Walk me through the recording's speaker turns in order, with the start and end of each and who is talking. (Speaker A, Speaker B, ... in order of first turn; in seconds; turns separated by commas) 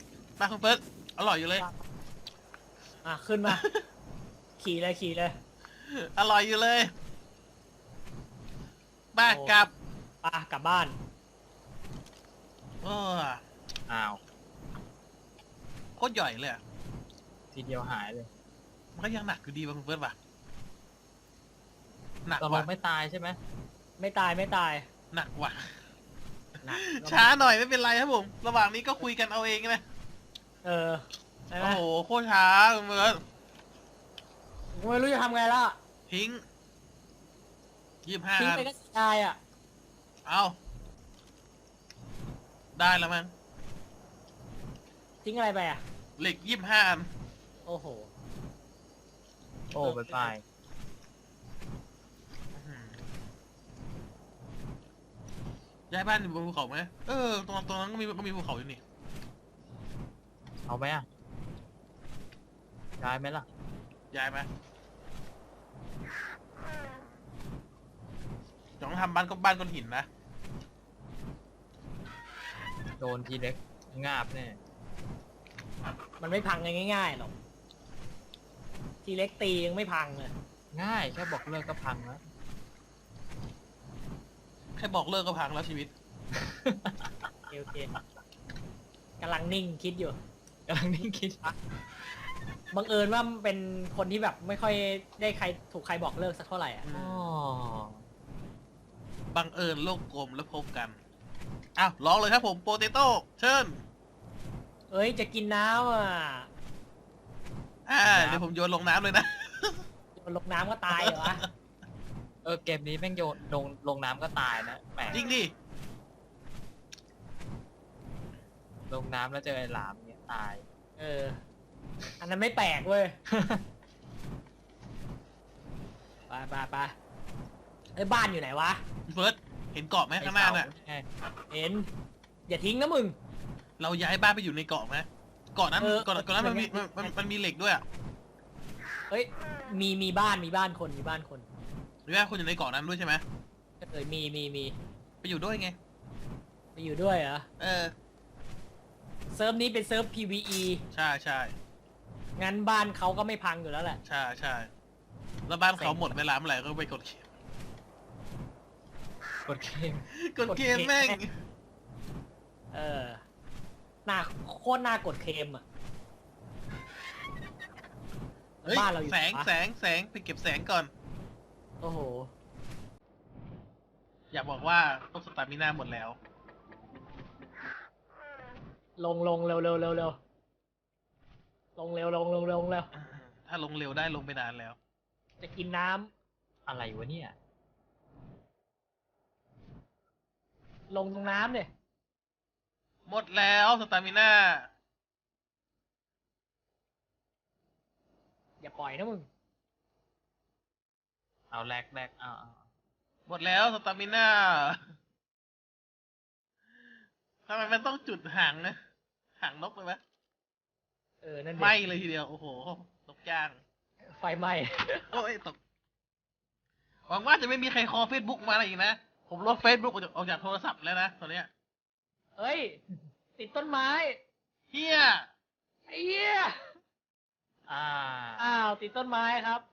Speaker A: 0.4-1.6, Speaker B: 1.6-1.8, Speaker B: 3.0-3.6, Speaker A: 3.5-3.8, Speaker B: 4.6-5.3, Speaker A: 5.8-6.9, Speaker A: 9.1-9.7, Speaker B: 9.2-9.6, Speaker B: 10.2-10.9, Speaker A: 12.8-13.4, Speaker C: 13.9-14.2, Speaker A: 16.0-16.6, Speaker C: 17.5-18.3, Speaker A: 18.9-20.1, Speaker A: 22.2-22.7, Speaker C: 22.4-23.4, Speaker B: 24.0-24.9, Speaker A: 25.1-25.7, Speaker B: 26.6-27.3, Speaker A: 26.7-29.8, Speaker B: 30.6-31.8, Speaker A: 31.6-33.2, Speaker B: 34.7-35.8, Speaker A: 36.1-36.4, Speaker A: 38.0-38.7, Speaker B: 38.4-39.4, Speaker A: 40.2-40.5, Speaker A: 42.8-43.3, Speaker B: 45.2-45.8, Speaker A: 46.2-47.1, Speaker B: 47.6-48.1, Speaker C: 49.7-50.4, Speaker B: 49.8-50.3, Speaker A: 52.5-53.0, Speaker A: 55.9-58.8, Speaker C: 60.7-61.0, Speaker C: 63.0-63.5, Speaker A: 64.1-64.5, Speaker A: 68.8-70.1, Speaker C: 73.0-74.6, Speaker B: 76.2-77.3, Speaker B: 79.0-80.3, Speaker C: 80.7-82.2, Speaker A: 84.8-85.9, Speaker C: 86.3-87.3, Speaker B: 87.5-87.9, Speaker B: 89.2-90.2, Speaker C: 90.7-91.4, Speaker B: 92.7-96.8, Speaker A: 96.8-97.2, Speaker C: 96.9-98.0, Speaker A: 99.3-101.0, Speaker A: 101.8-103.8, Speaker B: 104.9-106.5, Speaker A: 107.9-109.8, Speaker C: 108.1-108.4, Speaker B: 110.2-111.4, Speaker A: 110.9-111.5, Speaker C: 112.4-115.2, Speaker A: 115.1-115.5, Speaker C: 118.9-120.7, Speaker B: 121.0-121.4, Speaker B: 122.2-123.2, Speaker C: 123.3-123.6, Speaker B: 126.3-126.9, Speaker B: 128.0-128.8, Speaker A: 129.1-130.7, Speaker C: 130.2-131.1, Speaker B: 131.5-131.9, Speaker B: 132.5-133.2, Speaker A: 133.8-137.8, Speaker B: 135.8-137.2, Speaker B: 139.1-141.4, Speaker A: 142.1-143.2, Speaker B: 143.8-144.8, Speaker A: 145.2-145.8, Speaker B: 146.8-147.4, Speaker A: 147.6-147.9, Speaker B: 149.3-150.8, Speaker A: 150.9-151.5, Speaker B: 152.4-154.0, Speaker A: 154.0-154.7, Speaker A: 155.5-157.2, Speaker B: 155.8-156.1, Speaker C: 159.4-160.1, Speaker A: 160.2-161.3, Speaker B: 160.5-161.2, Speaker B: 162.7-163.2, Speaker B: 164.1-165.6, Speaker B: 168.6-169.5, Speaker A: 168.7-170.9, Speaker B: 171.8-172.3, Speaker A: 174.3-176.2, Speaker B: 179.0-180.2, Speaker B: 181.8-182.9, Speaker A: 182.9-184.8, Speaker B: 185.4-186.1, Speaker C: 186.7-187.3, Speaker B: 190.9-191.7, Speaker A: 193.1-194.7, Speaker B: 198.6-199.3, Speaker C: 201.5-202.6, Speaker A: 203.3-204.8, Speaker A: 207.5-208.8, Speaker A: 209.4-210.0, Speaker B: 211.2-211.8, Speaker A: 211.6-213.6, Speaker B: 214.1-215.1, Speaker A: 215.1-215.6, Speaker A: 217.1-221.5, Speaker B: 222.4-222.8, Speaker B: 223.4-224.2, Speaker A: 224.7-225.2, Speaker B: 225.9-226.7, Speaker C: 227.7-228.4, Speaker B: 228.4-229.6